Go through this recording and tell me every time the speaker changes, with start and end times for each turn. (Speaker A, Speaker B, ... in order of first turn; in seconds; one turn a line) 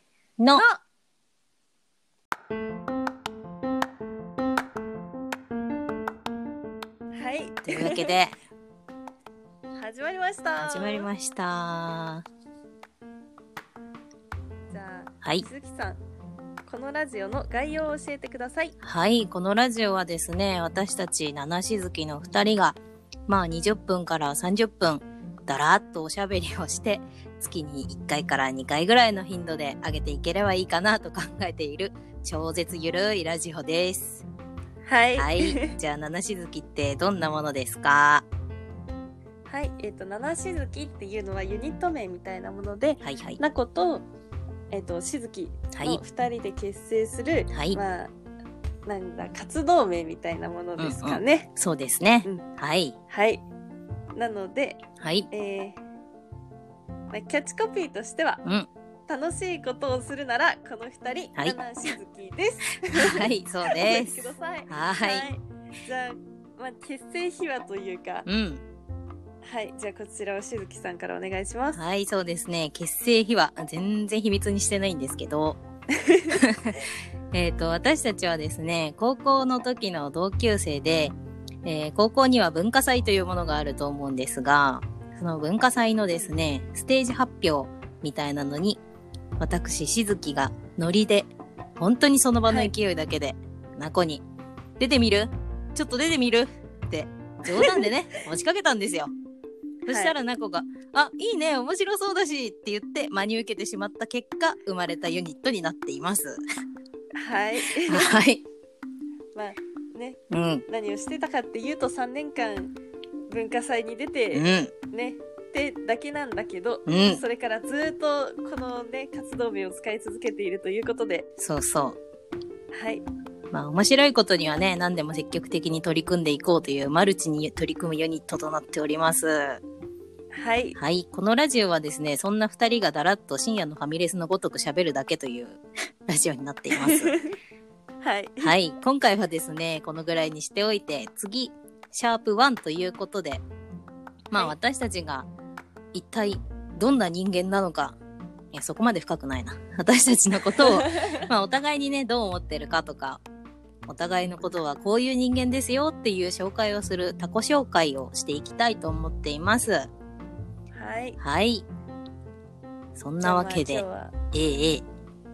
Speaker A: 0.4-0.6
Speaker B: 0.5-0.8
Speaker B: 7.1-8.1
Speaker A: 7.7-8.3
Speaker B: 9.8-11.1
Speaker A: 10.6-12.2
Speaker B: 14.7-16.0
Speaker B: 16.6-18.7
Speaker A: 18.8-34.2
Speaker B: 34.8-35.8
Speaker A: 35.2-38.2
Speaker B: 39.5-44.0
Speaker A: 43.0-43.4
Speaker B: 44.7-48.1
Speaker A: 45.7-46.0
Speaker A: 47.5-47.8
Speaker B: 48.9-51.5
Speaker A: 50.8-53.0
Speaker B: 53.1-53.4
Speaker B: 54.1-55.8
Speaker A: 55.0-55.3
Speaker B: 57.1-58.4
Speaker A: 58.4-58.7
Speaker B: 59.1-68.2
Speaker A: 61.4-61.6
Speaker A: 63.0-65.3
Speaker A: 68.2-68.6
Speaker B: 69.4-71.8
Speaker A: 71.7-75.6
Speaker B: 76.0-76.4
Speaker A: 76.3-76.8
Speaker A: 77.3-88.8
Speaker A: 89.4-94.2
Speaker B: 92.5-92.7
Speaker A: 94.8-99.1
Speaker B: 97.5-97.9
Speaker A: 99.8-106.4
Speaker B: 99.9-100.1
Speaker B: 107.2-108.2
Speaker A: 107.7-108.4
Speaker B: 109.3-112.7
Speaker A: 110.3-110.6
Speaker B: 113.3-121.3
Speaker A: 114.3-114.7
Speaker A: 116.8-117.2
Speaker A: 121.4-122.0
Speaker B: 122.7-123.0
Speaker A: 123.5-129.6
Speaker B: 130.3-130.8
Speaker A: 130.8-137.1
Speaker B: 136.7-137.3
Speaker B: 138.0-138.5
Speaker A: 138.4-143.4
Speaker A: 144.3-145.3
Speaker A: 145.9-148.0
Speaker A: 148.5-153.2
Speaker B: 150.5-151.0
Speaker A: 153.9-159.9
Speaker B: 160.7-161.2
Speaker A: 161.2-161.7
Speaker A: 162.9-164.8
Speaker B: 163.2-164.1